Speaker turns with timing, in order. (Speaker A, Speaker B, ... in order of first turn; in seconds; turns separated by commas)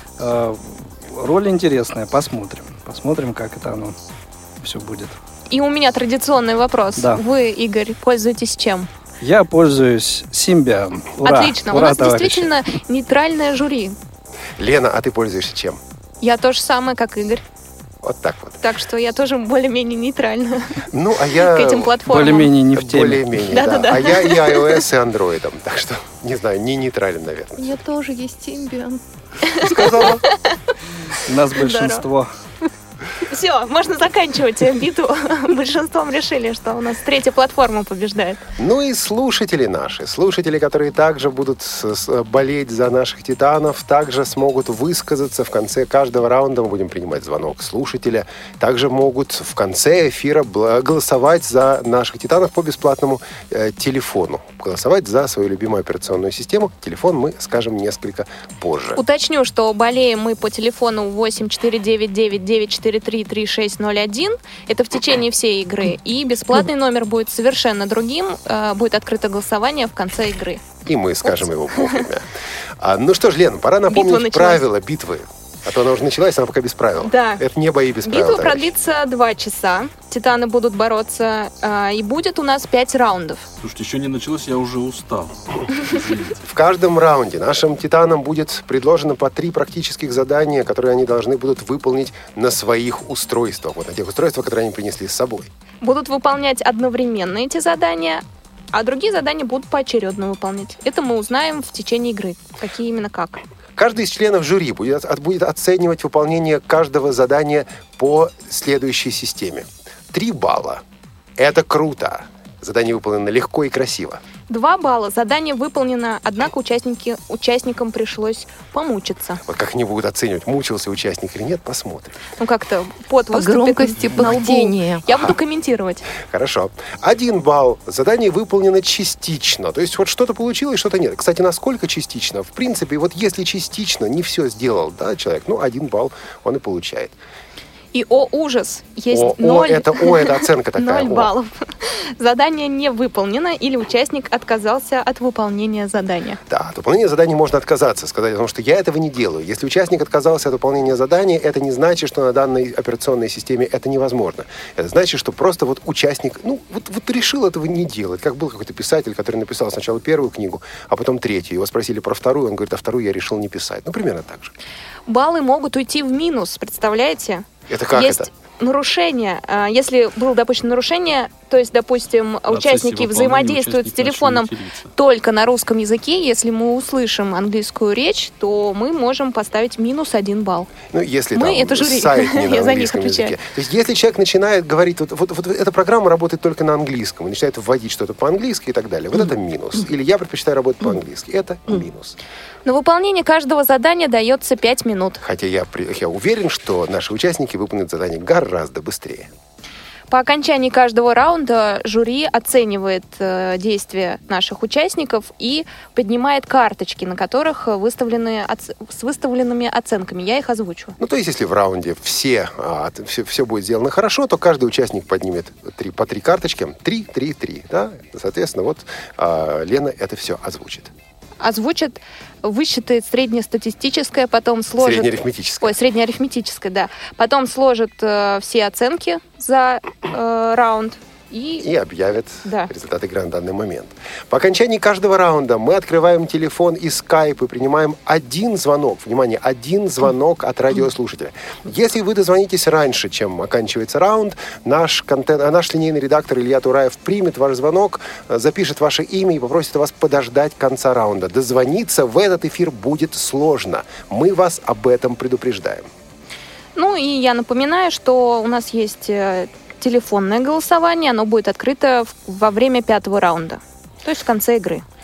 Speaker A: 0.2-4.0, Speaker A: 4.6-5.2, Speaker B: 5.5-8.9, Speaker A: 9.2-12.6, Speaker B: 11.2-14.0, Speaker C: 14.6-15.8, Speaker B: 16.2-17.4, Speaker C: 18.0-18.6, Speaker B: 18.6-20.8, Speaker C: 20.9-22.0, Speaker B: 21.4-22.5, Speaker A: 22.1-23.4, Speaker C: 22.7-27.8, Speaker B: 23.5-24.7, Speaker D: 27.6-29.0, Speaker B: 29.5-30.6, Speaker C: 29.6-30.2, Speaker A: 31.3-32.3, Speaker B: 31.6-32.0, Speaker B: 33.3-38.4, Speaker C: 38.6-59.0, Speaker B: 59.0-70.6, Speaker C: 70.8-72.3, Speaker B: 71.2-72.0, Speaker C: 72.8-78.7, Speaker B: 73.9-74.6, Speaker B: 77.0-77.4, Speaker B: 78.0-83.5, Speaker E: 83.6-86.4, Speaker C: 86.5-95.5, Speaker B: 95.8-103.4, Speaker C: 103.8-110.8, Speaker C: 111.4-114.2, Speaker B: 114.5-119.4, Speaker C: 119.5-122.2, Speaker B: 122.4-126.0, Speaker D: 123.3-125.0, Speaker C: 126.1-137.2, Speaker B: 137.9-146.4, Speaker C: 139.1-141.3, Speaker C: 146.5-164.5, Speaker B: 165.1-180.7, Speaker C: 167.7-168.3, Speaker E: 172.5-174.9, Speaker C: 180.9-192.2, Speaker B: 181.3-183.3, Speaker B: 192.6-195.2, Speaker C: 195.2-199.3, Speaker B: 200.1-210.9, Speaker C: 211.0-220.9, Speaker B: 221.4-231.7, Speaker C: 224.8-225.8, Speaker C: 231.6-255.9, Speaker B: 232.4-232.7, Speaker B: 256.7-264.8